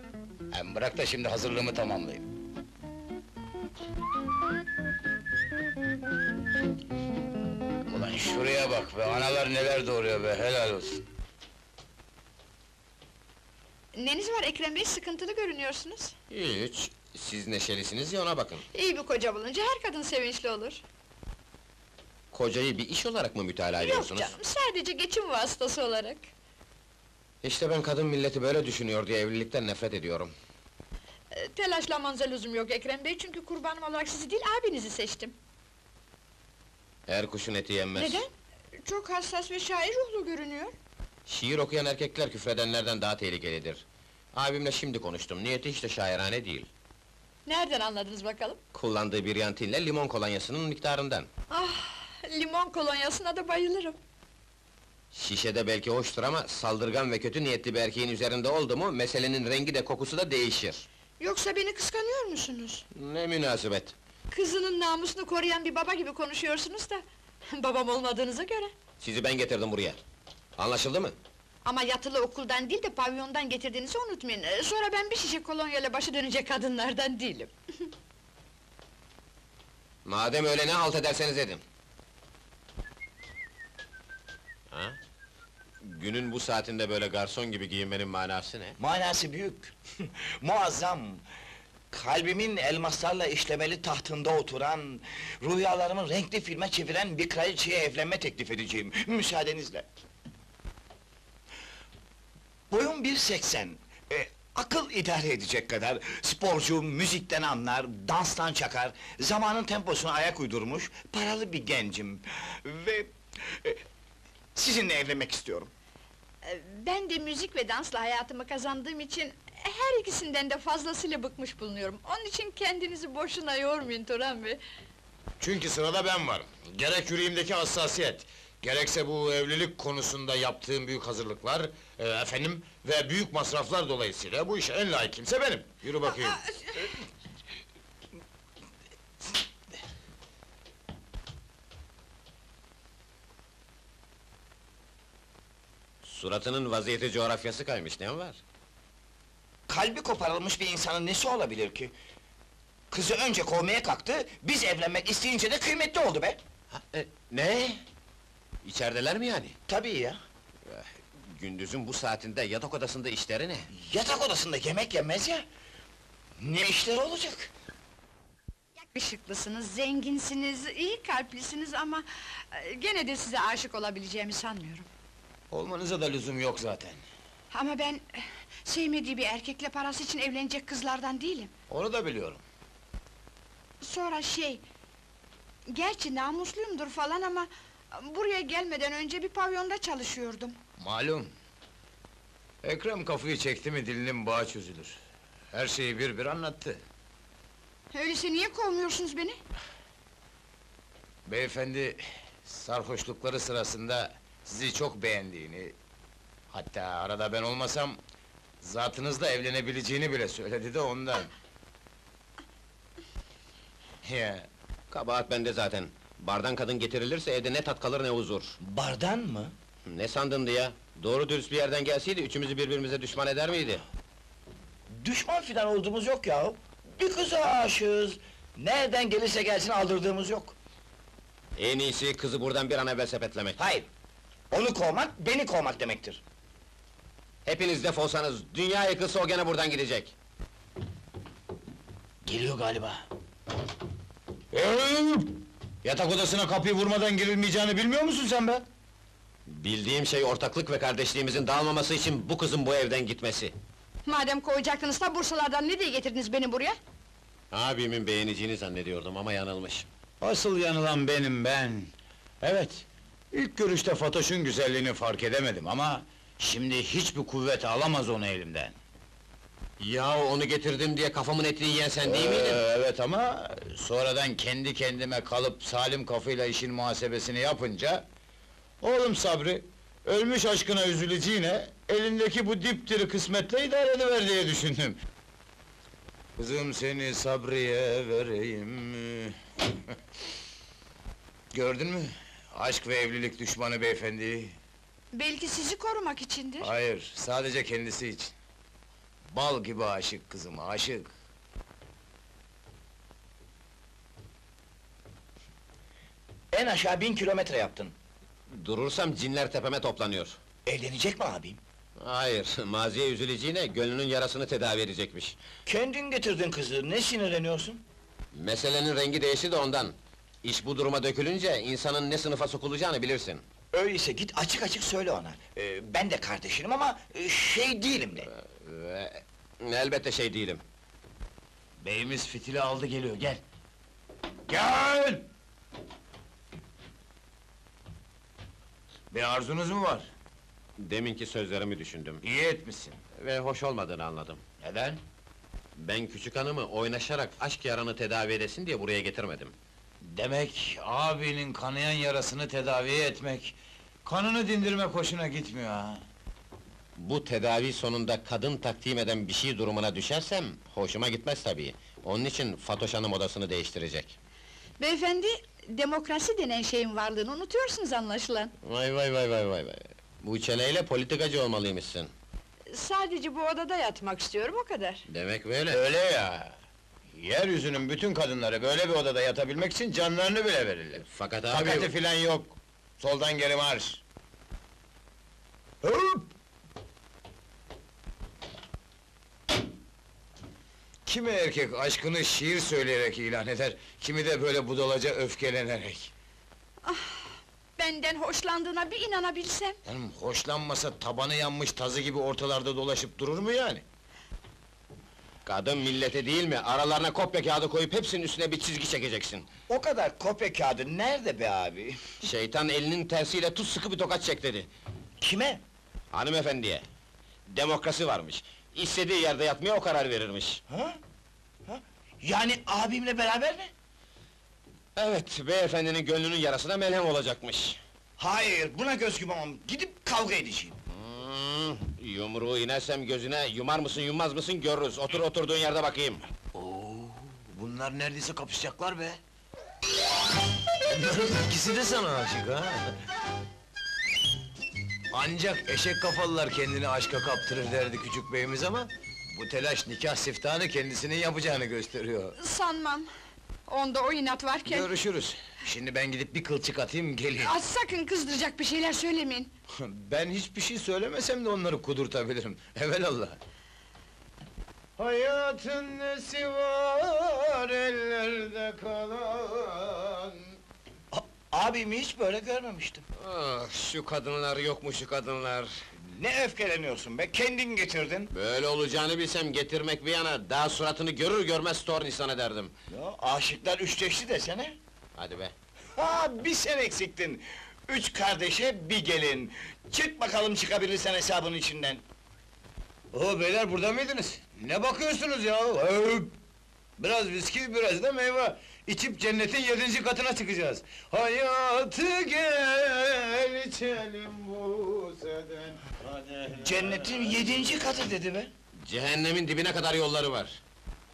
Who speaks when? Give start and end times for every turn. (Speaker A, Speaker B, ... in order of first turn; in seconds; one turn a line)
Speaker A: 0.5-2.2
Speaker A: 7.9-11.0
Speaker B: 13.9-16.1
Speaker C: 16.3-18.6
Speaker B: 18.7-20.8
Speaker C: 22.3-24.3
Speaker B: 23.8-26.2
Speaker C: 27.4-30.3
Speaker B: 31.3-35.3
Speaker C: 37.1-38.2
Speaker B: 38.0-38.3
Speaker B: 38.8-40.7
Speaker C: 41.3-43.8
Speaker C: 44.3-46.7
Speaker B: 47.5-48.6
Speaker C: 48.7-51.3
Speaker B: 51.5-54.0
Speaker C: 55.1-60.8
Speaker B: 61.2-62.8
Speaker C: 62.9-63.9
Speaker B: 64.3-68.7
Speaker C: 69.0-70.0
Speaker C: 70.6-71.1
Speaker B: 71.6-77.5
Speaker C: 80.0-81.6
Speaker C: 84.7-85.0
Speaker C: 85.8-88.8
Speaker D: 88.8-91.2
Speaker D: 91.9-99.8
Speaker D: 102.7-113.8
Speaker D: 114.5-115.7
Speaker B: 116.4-124.6
Speaker A: 125.4-136.4
Speaker B: 136.1-136.9
Speaker C: 146.0-148.4
Speaker D: 149.7-151.9
Speaker D: 152.9-156.4
Speaker C: 156.7-157.8
Speaker C: 158.6-159.5
Speaker D: 159.7-160.2
Speaker C: 160.7-163.7
Speaker D: 163.8-165.4
Speaker D: 166.4-167.5
Speaker B: 168.9-174.9
Speaker A: 175.5-177.0
Speaker B: 177.5-181.5
Speaker A: 181.7-182.4
Speaker B: 183.8-184.6
Speaker B: 185.7-190.6
Speaker A: 190.8-191.3
Speaker A: 192.6-195.0
Speaker A: 195.5-196.8
Speaker B: 197.9-199.4
Speaker A: 201.2-205.7
Speaker A: 206.5-208.0
Speaker A: 208.6-211.3
Speaker A: 214.0-214.5
Speaker C: 214.9-218.6
Speaker D: 218.6-219.5
Speaker C: 219.8-223.8
Speaker D: 224.9-230.5
Speaker C: 231.6-233.6
Speaker D: 233.6-233.9
Speaker D: 234.5-236.2
Speaker C: 237.4-240.1
Speaker A: 242.2-243.1
Speaker A: 244.5-248.6
Speaker C: 249.5-253.5
Speaker B: 254.1-256.8
Speaker C: 257.5-259.9
Speaker A: 260.2-261.9
Speaker A: 262.4-268.7
Speaker C: 269.8-272.6
Speaker A: 272.0-278.1
Speaker A: 278.8-285.0
Speaker A: 286.4-289.9
Speaker A: 291.5-294.6
Speaker B: 295.1-296.7
Speaker A: 296.6-298.3
Speaker A: 299.3-301.1
Speaker D: 306.5-307.9
Speaker C: 308.5-310.4
Speaker D: 310.6-311.6
Speaker C: 312.0-315.4
Speaker D: 315.6-317.8
Speaker C: 318.3-323.4
Speaker D: 323.7-328.3
Speaker C: 328.5-330.6
Speaker A: 331.8-333.4
Speaker A: 334.5-335.2
Speaker A: 339.1-340.1
Speaker C: 340.8-342.2
Speaker A: 342.2-343.0
Speaker C: 343.2-344.4
Speaker A: 344.6-345.0
Speaker C: 345.8-349.5
Speaker A: 350.0-356.0
Speaker C: 357.0-364.2
Speaker B: 364.8-368.5
Speaker C: 368.6-372.1
Speaker B: 372.7-375.0
Speaker C: 375.1-375.8
Speaker A: 375.7-376.5
Speaker A: 377.1-384.0
Speaker C: 381.1-381.9
Speaker A: 385.8-386.3
Speaker A: 391.1-396.1
Speaker B: 396.8-399.8
Speaker A: 399.9-403.8
Speaker C: 405.4-409.5
Speaker D: 409.7-412.1
Speaker C: 412.2-414.7
Speaker D: 415.2-415.6
Speaker C: 416.1-416.8
Speaker C: 417.5-420.6
Speaker D: 420.7-421.0
Speaker D: 421.7-423.7
Speaker C: 424.9-427.8
Speaker D: 428.2-430.8
Speaker C: 430.9-436.2
Speaker A: 436.5-439.2
Speaker A: 440.9-442.9
Speaker A: 445.1-452.3
Speaker B: 452.4-453.1
Speaker B: 453.7-454.9
Speaker A: 454.6-457.5
Speaker B: 457.4-459.5
Speaker A: 459.8-463.4
Speaker A: 465.0-470.6
Speaker D: 471.1-473.0
Speaker C: 473.2-475.8
Speaker D: 476.1-478.3
Speaker C: 478.3-482.7
Speaker D: 482.9-484.8
Speaker C: 485.1-485.5
Speaker D: 486.0-492.0
Speaker A: 493.1-496.3
Speaker A: 497.0-507.7
Speaker D: 506.6-508.5
Speaker C: 508.8-510.6